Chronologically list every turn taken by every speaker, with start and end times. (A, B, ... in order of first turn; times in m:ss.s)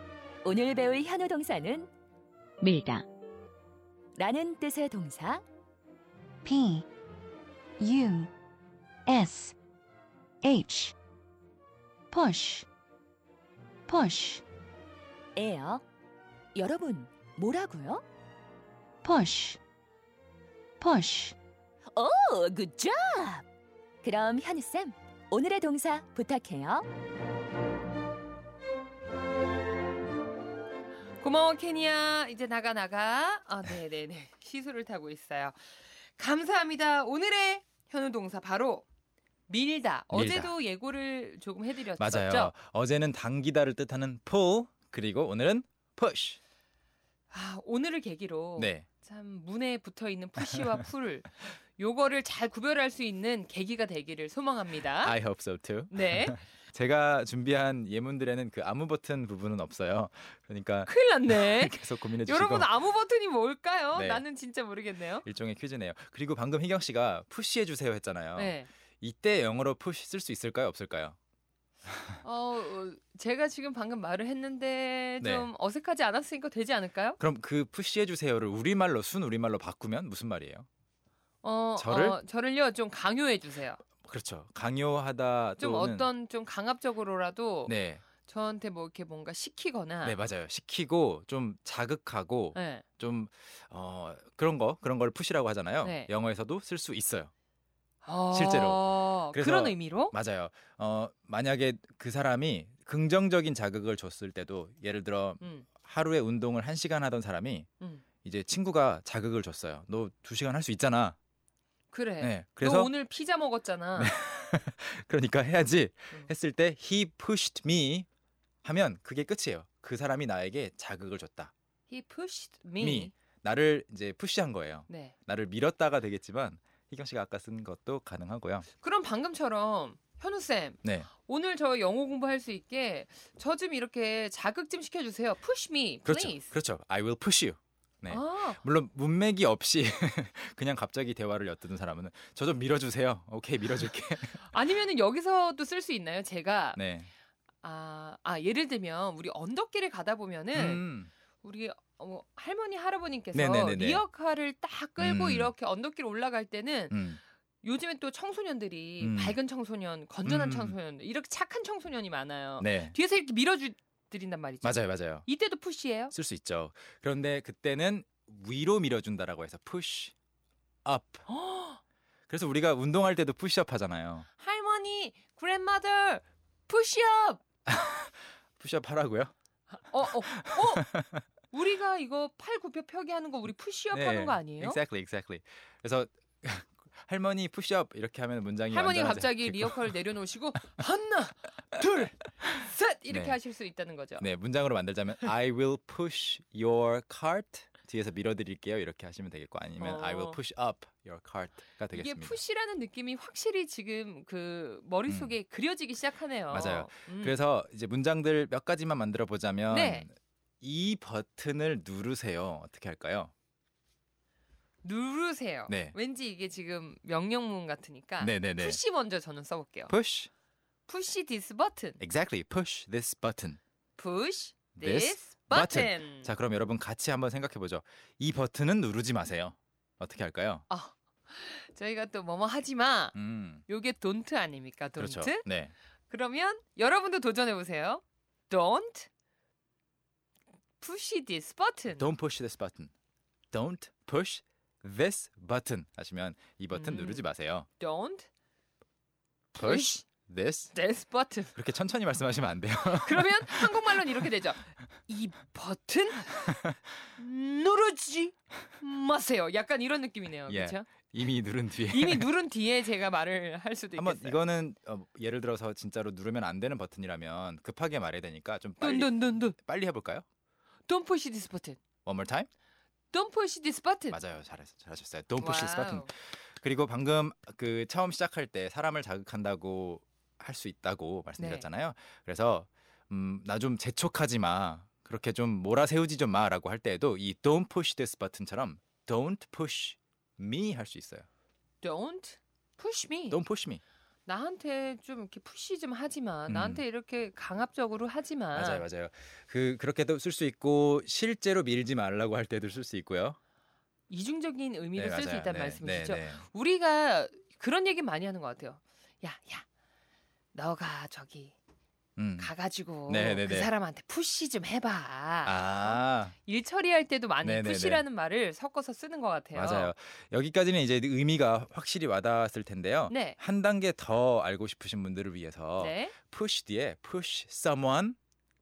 0:00.4-0:01.9 A
0:02.6-0:03.1 A
0:04.2-0:05.4 A
0:06.4-0:06.9 B
0:07.8-0:08.3 B
0:09.1-0:09.6 B
0:10.4-0:11.0 B
0:12.1-0:12.7 B
0:13.9-0:14.4 B
0:15.4-0:15.8 A
0:16.6-0:18.0 A
0:19.0-0:19.6 B
0:20.8-0:21.4 B
0:21.9-0:23.4 A
0:24.0-0:26.9 A
0:31.2-0:38.9 C
0:39.5-0:42.5 C
0:40.1-0:40.5 D
0:42.0-0:46.4 D
0:47.3-0:55.2 C
0:48.6-0:48.9 D
0:55.0-1:02.7 D
0:55.9-0:56.4 C
1:00.9-1:05.2 C
1:03.9-1:04.3 D
1:05.2-1:11.2 D
1:08.4-1:08.7 C
1:11.9-1:12.2 D
1:12.2-1:17.2 C
1:15.2-1:15.5 D
1:17.2-1:20.7 D
1:21.4-1:23.8 C
1:21.8-1:22.2 D
1:24.0-1:26.1 D
1:25.6-1:30.2 C
1:27.7-1:28.0 D
1:30.0-1:37.3 D
1:32.6-1:32.8 C
1:35.8-1:36.1 C
1:38.0-1:40.2 C
1:38.3-1:47.7 D
1:45.4-1:45.7 C
1:48.2-1:51.2 D
1:51.9-1:54.2 C
1:52.2-1:52.9 D
1:54.0-1:58.1 D
1:58.6-2:01.5 D
2:01.9-2:03.1 C
2:02.8-2:08.7 D
2:04.9-2:05.1 C
2:08.8-2:16.5 C
2:10.8-2:11.1 D
2:16.1-2:24.5 D
2:18.1-2:18.6 C
2:24.4-2:26.8 C
2:26.8-2:27.1 D
2:27.6-2:30.8 C
2:30.5-2:31.1 D
2:31.4-2:37.0 C
2:33.3-2:34.0 D
2:35.0-2:35.5 D
2:36.9-2:37.2 D
2:37.6-2:46.1 C
2:39.0-2:39.4 D
2:40.2-2:40.8 D
2:42.6-2:43.0 D
2:44.6-2:45.3 D
2:46.1-2:50.1 D
2:50.8-2:51.3 D
2:51.3-2:51.8 C
2:52.3-2:54.3 D
2:54.4-2:57.4 C
2:57.7-2:59.3 D
2:59.8-3:00.9 C
3:00.3-3:01.2 D
3:01.5-3:04.8 C
3:03.9-3:10.0 D
3:08.7-3:14.3 C
3:13.1-3:13.4 D
3:14.2-3:22.4 D
3:19.8-3:20.4 C
3:21.9-3:27.4 C
3:25.1-3:25.4 D
3:26.5-3:33.3 D
3:29.7-3:30.1 C
3:34.8-3:39.9 C
3:35.7-3:36.0 D
3:38.2-3:38.8 D
3:39.9-3:40.3 D
3:40.9-3:42.0 C
3:42.0-3:43.6 D
3:44.0-3:46.3 C
3:44.8-3:50.6 D
3:50.7-3:53.2 C
3:53.1-3:53.6 D
3:53.7-3:55.4 C
3:55.0-3:55.7 D
3:56.1-3:59.1 C
4:00.8-4:02.1 C
4:01.9-4:02.9 D
4:03.5-4:07.7 D
4:06.7-4:07.3 C
4:07.8-4:08.3 C
4:09.6-4:10.8 D
4:09.6-4:10.1 C
4:10.7-4:11.6 C
4:11.6-4:14.3 D
4:13.0-4:16.6 C
4:17.2-4:20.9 C
4:20.5-4:22.3 D
4:21.9-4:24.4 C
4:24.0-4:30.2 D
4:28.8-4:29.6 C
4:30.9-4:31.8 C
4:32.1-4:32.5 D
4:33.1-4:34.2 C
4:34.1-4:51.3 D
4:35.4-4:36.1 C
4:41.4-4:41.7 C
4:51.8-4:53.4 C
4:53.3-4:53.8 D
4:54.3-4:58.9 C
4:56.5-4:56.8 D
4:58.5-5:03.4 D
5:04.1-5:09.7 C
5:05.0-5:06.4 D
5:10.5-5:11.6 C
5:12.2-5:12.5 D
5:12.4-5:19.9 C
5:13.1-5:13.7 D
5:15.4-5:16.4 D
5:17.4-5:18.1 D
5:19.6-5:28.2 D
5:23.1-5:23.4 C
5:25.8-5:26.2 C